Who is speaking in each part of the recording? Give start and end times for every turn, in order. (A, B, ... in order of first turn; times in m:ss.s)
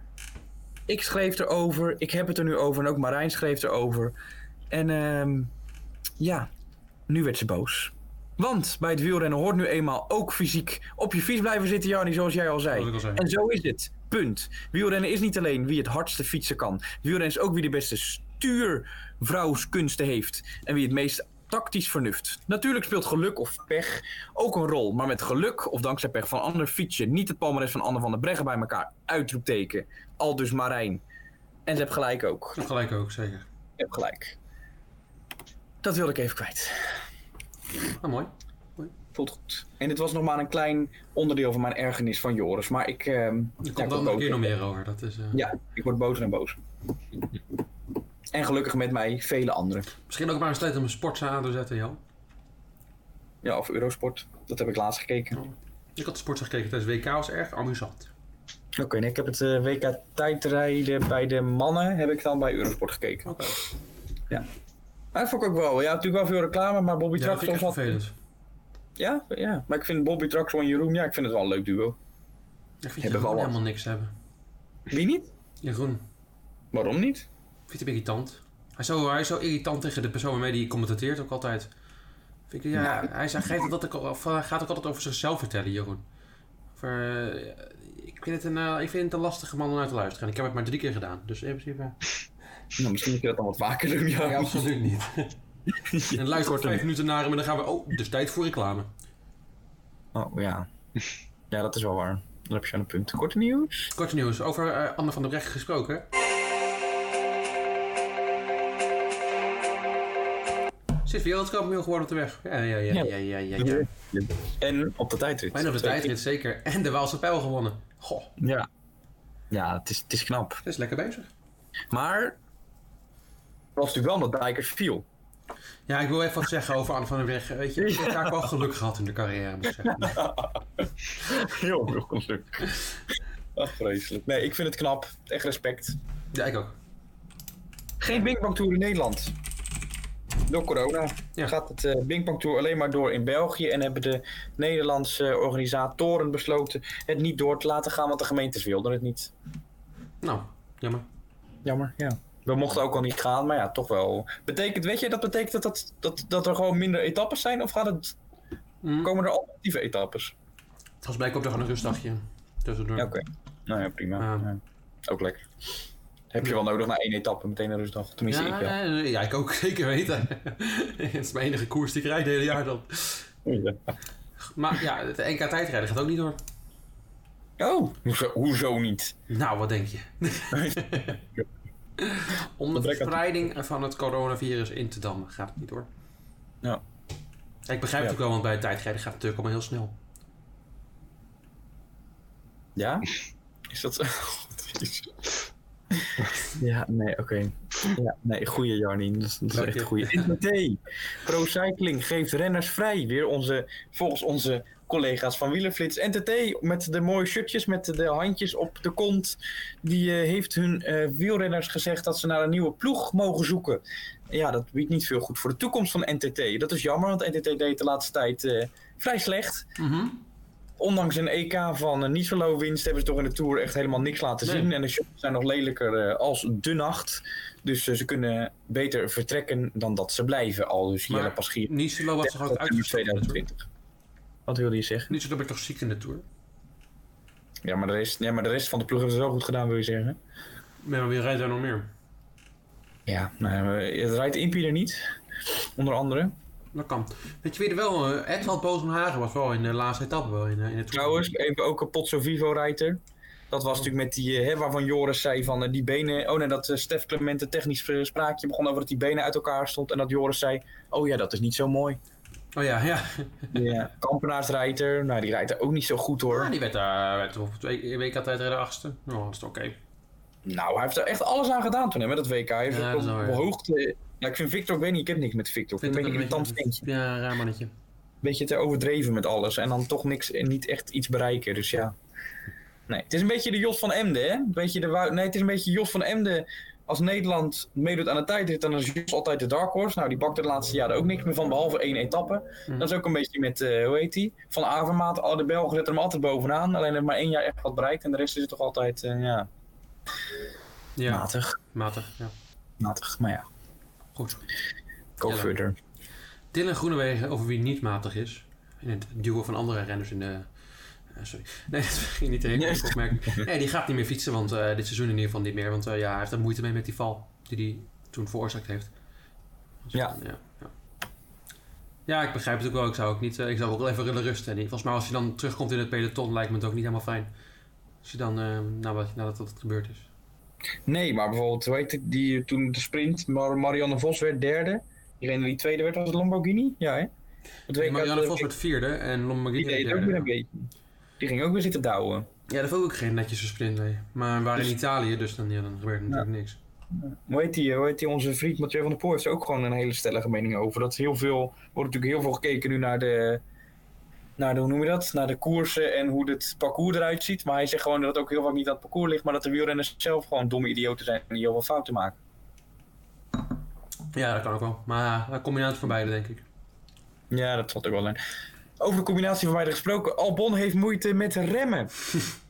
0:00.9-0:04.1 A
0:04.7-0:05.5 A
0:06.2-0:06.5 A
0:07.1-0:31.0 A
0:12.7-0:13.2 B
0:31.6-0:32.6 A
0:32.6-0:33.4 B
0:33.8-0:34.4 A
0:35.8-0:37.0 A
0:37.9-0:38.9 B
0:39.1-0:44.5 A
0:43.6-0:45.4 B
0:45.3-0:46.6 A
0:48.3-0:49.9 A
0:50.1-0:52.0 B
0:53.4-0:55.4 A
0:55.4-0:58.1 B
0:58.8-1:03.5 A
1:03.3-1:03.6 B
1:05.1-1:08.0 A
1:07.2-1:08.1 B
1:09.0-1:12.0 A
1:12.8-1:14.1 B
1:13.0-1:13.6 A
1:14.9-1:15.3 A
1:15.6-1:16.0 B
1:16.7-1:17.2 A
1:17.7-1:21.7 B
1:22.5-1:26.0 B
1:22.8-1:23.1 A
1:26.8-1:32.0 B
1:32.8-1:34.6 A
1:34.2-1:35.4 B
1:35.8-1:36.8 A
1:36.1-1:38.9 B
1:40.1-1:40.7 A
1:41.5-1:43.9 A
1:43.9-1:46.0 B
1:51.0-1:53.9 B
1:52.9-1:56.1 A
1:55.5-1:58.3 B
1:58.4-1:58.7 A
1:59.5-2:00.6 A
2:00.6-2:01.3 B
2:01.9-2:02.4 A
2:03.8-2:05.0 A
2:05.9-2:10.2 B
2:07.8-2:08.5 A
2:09.8-2:12.9 A
2:13.5-2:16.0 A
2:16.3-2:16.7 B
2:18.0-2:19.3 A
2:20.5-2:29.3 A
2:30.2-2:31.0 B
2:31.6-2:38.2 A
2:38.8-2:39.1 B
2:39.0-2:40.3 A
2:41.0-2:43.1 B
2:43.0-2:45.4 A
2:44.2-2:44.5 B
2:46.3-2:48.8 A
2:48.3-2:53.3 B
2:53.4-2:53.8 A
2:54.5-2:56.4 B
2:57.6-2:59.1 A
2:59.3-3:01.2 B
3:00.5-3:01.4 A
3:02.0-3:05.9 B
3:02.7-3:03.2 A
3:07.7-3:09.9 B
3:12.8-3:13.1 A
3:13.7-3:15.2 A
3:15.9-3:39.7 A
3:19.5-3:20.3 B
3:39.8-3:40.2 B
3:40.8-3:53.6 A
3:44.4-3:44.7 B
3:51.1-3:53.4 B
3:54.4-3:55.1 A
3:55.1-3:56.2 B
3:57.6-4:00.2 A
4:00.8-4:01.9 B
4:03.0-4:05.0 A
4:05.5-4:06.4 A
4:06.7-4:11.3 B
4:10.9-4:22.0 A
4:22.5-4:23.6 B
4:23.5-4:26.5 A
4:26.3-4:29.8 B
4:30.4-4:36.8 A
4:32.7-4:33.4 B
4:35.8-4:37.7 B
4:38.2-4:41.9 A
4:42.9-4:59.5 A
5:01.0-5:02.3 B
5:01.1-5:01.6 A
5:02.8-5:03.4 A
5:04.2-5:04.4 B
5:05.2-5:05.8 A
5:05.2-5:05.5 B
5:06.5-5:10.5 B
5:11.1-5:18.9 B
5:12.6-5:13.5 A
5:19.8-5:20.7 B
5:22.1-5:27.3 B
5:28.0-5:30.1 B
5:30.8-5:37.1 A
5:37.7-5:38.5 A
5:37.8-5:40.3 B
5:39.6-5:42.3 A
5:42.5-5:46.6 B
5:47.0-5:53.4 A
5:54.4-6:02.2 A
6:04.1-6:06.4 B
6:07.3-6:08.2 A
6:08.8-6:11.9 A